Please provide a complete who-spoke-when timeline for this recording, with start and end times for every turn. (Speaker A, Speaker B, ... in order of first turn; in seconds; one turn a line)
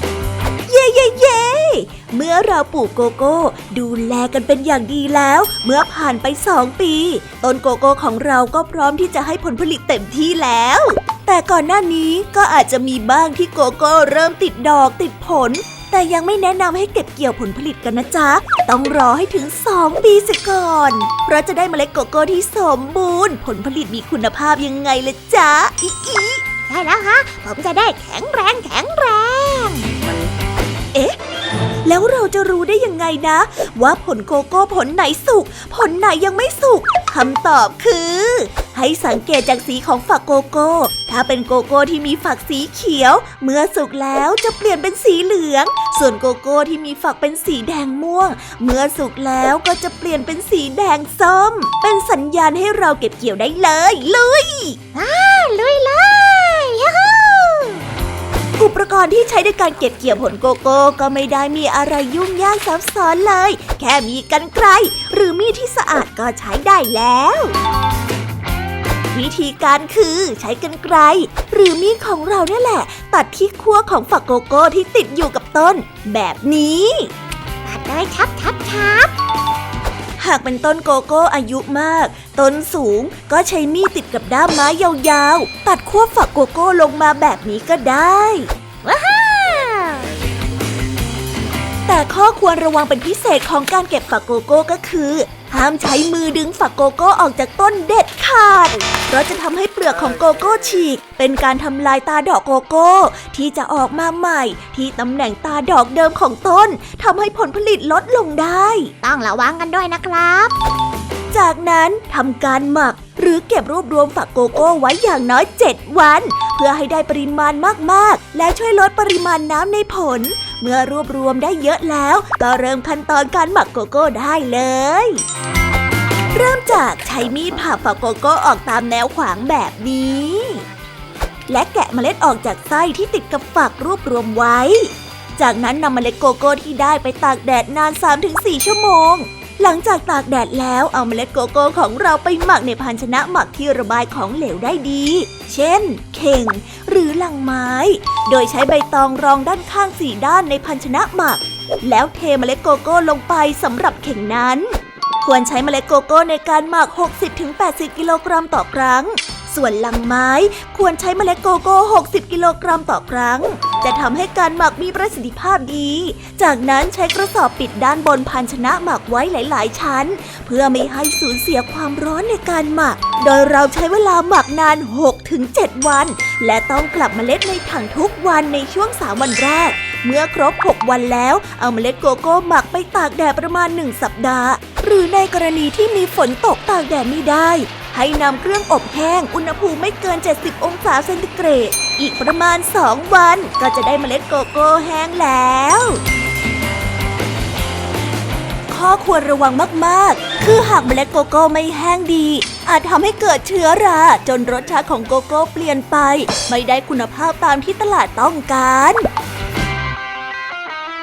Speaker A: 0.7-26.4
Speaker B: 26.6-29.9
Speaker A: 31.9-54.8
Speaker B: 54.9-57.8
Speaker A: 58.6-67.5
Speaker A: 69.1-77.1
Speaker B: 77.7-79.1
Speaker A: 80.2-88.5
Speaker B: 89.0-90.0
Speaker A: 91.9-108.9
Speaker B: 109.0-110.5
Speaker A: 111.3-125.2
Speaker A: 126.3-130.6
Speaker A: 131.5-196.0
Speaker A: 198.7-209.1